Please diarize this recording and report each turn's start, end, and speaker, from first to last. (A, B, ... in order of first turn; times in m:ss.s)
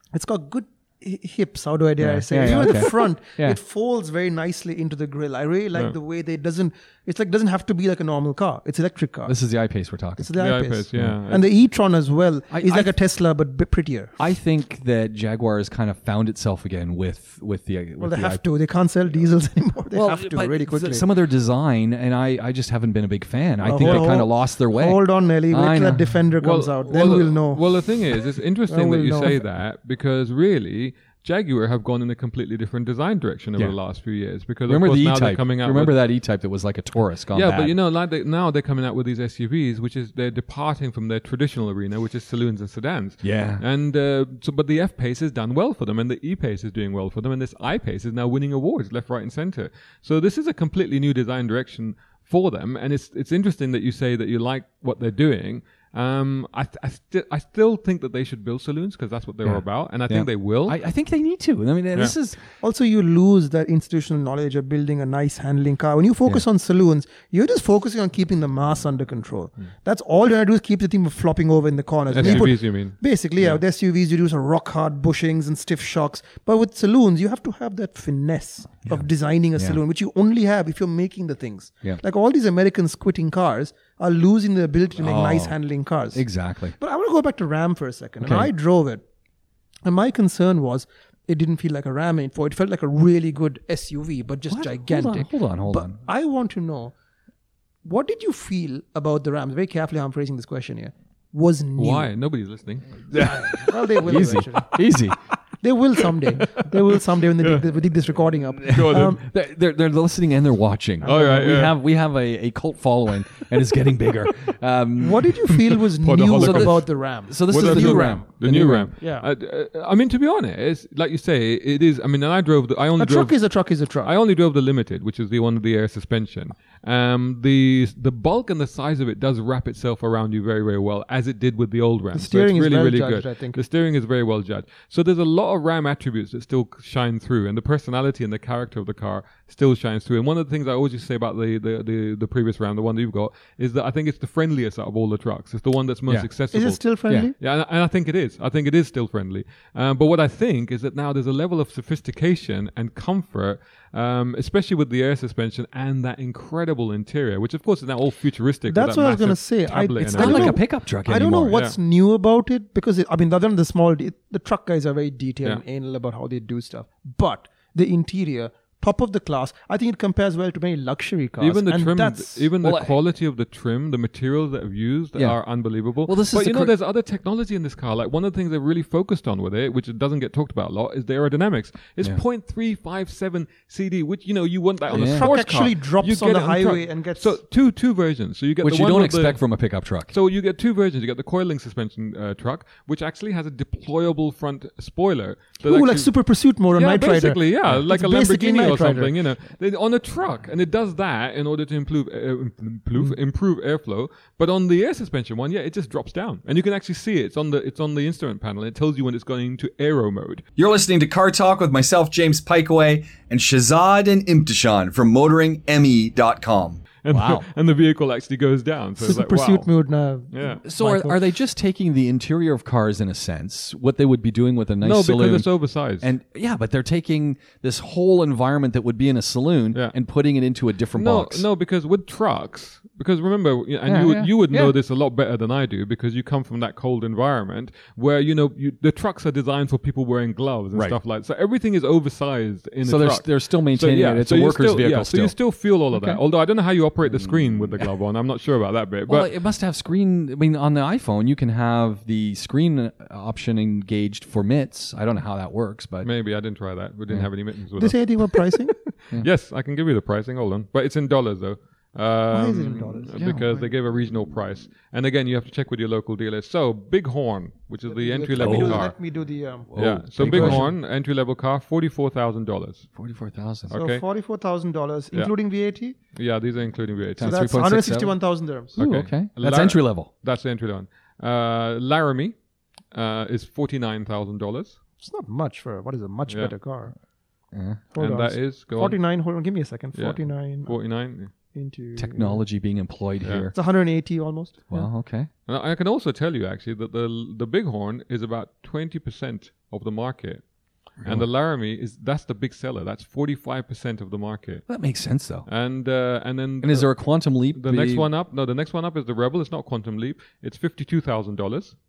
0:00.1-0:09.3 A
0:02.0-0:03.6 B
0:09.2-0:10.3 B
0:10.2-0:14.2 A
0:10.4-0:11.4 C
0:10.9-0:11.2 B
0:12.5-0:12.9 B
0:14.2-0:18.4 B
0:18.0-0:21.0 A
0:19.9-0:26.2 B
0:23.6-0:28.1 A
0:23.7-0:24.1 C
0:26.4-0:36.0 C
0:28.7-0:29.4 A
0:34.7-0:37.7 B
0:37.3-1:00.8 C
0:43.2-0:43.6 B
0:59.4-1:02.4 B
1:02.6-1:26.2 A
1:12.1-1:13.0 C
1:12.2-1:12.5 B
1:25.0-1:25.6 B
1:26.1-1:26.8 B
1:26.8-1:29.0 A
1:28.2-1:28.5 B
1:29.8-1:36.9 A
1:34.5-1:36.0 B
1:37.8-1:42.1 A
1:41.8-1:43.0 C
1:43.1-1:45.2 B
1:43.2-1:44.8 A
1:45.6-1:49.2 A
1:48.6-1:55.5 B
1:48.7-1:49.1 C
1:51.0-1:51.7 C
1:51.0-1:51.4 A
1:55.0-1:58.3 A
1:55.7-1:56.9 C
1:56.4-1:58.9 B
1:57.5-2:03.4 C
1:59.0-1:59.3 A
2:03.0-2:04.1 A
2:04.0-2:26.8 C
2:12.1-2:13.6 A
2:26.5-2:27.3 A
2:27.4-2:40.6 C
2:38.7-2:52.5 A
2:40.0-2:41.6 B
2:41.5-2:41.8 C
2:51.4-3:09.4 C
2:52.6-2:53.0 B
2:56.0-2:56.7 B
3:04.9-3:05.3 B
3:04.9-3:07.3 A
3:08.6-3:10.1 B
3:10.1-3:16.1 C
3:15.6-3:19.1 A
3:16.7-3:30.4 C
3:30.6-3:36.8 D
3:37.0-3:39.7 C
3:37.1-3:37.4 B
3:39.0-3:41.2 A
3:40.3-3:40.6 C
3:40.6-3:45.5 B
3:44.8-3:46.1 C
3:46.0-3:51.4 B
3:50.9-4:09.3 C
3:53.8-3:54.8 B
4:00.7-4:01.0 B
4:02.8-4:05.3 B
4:05.9-4:06.2 B
4:07.0-4:07.9 B
4:09.1-4:16.1 B
4:16.0-4:28.9 C
4:17.8-4:18.7 A
4:22.3-4:23.2 A
4:23.2-4:23.6 B
4:27.9-4:30.7 A
4:28.4-4:28.9 B
4:29.7-4:30.7 B
4:29.8-4:32.8 C
4:32.9-4:33.7 B
4:33.7-4:34.0 C
4:33.7-4:36.0 A
4:36.1-4:37.4 C
4:37.2-4:38.2 B
4:37.2-4:38.8 A
4:38.8-4:40.1 B
4:38.8-4:42.3 C
4:42.9-4:44.8 C
4:45.0-4:46.9 A
4:47.5-4:47.8 B
4:47.9-4:50.8 A
4:48.0-4:49.0 C
4:49.9-4:51.3 C
4:51.5-4:52.4 A
4:52.0-4:53.5 B
4:53.2-4:53.5 C
4:53.5-4:54.9 A
4:54.7-4:55.3 B
4:55.5-5:00.4 C
5:01.0-5:01.3 B
5:01.0-5:04.6 C
5:04.7-5:05.5 B
5:05.5-5:06.9 C
5:06.6-5:08.1 B
5:07.5-5:11.8 C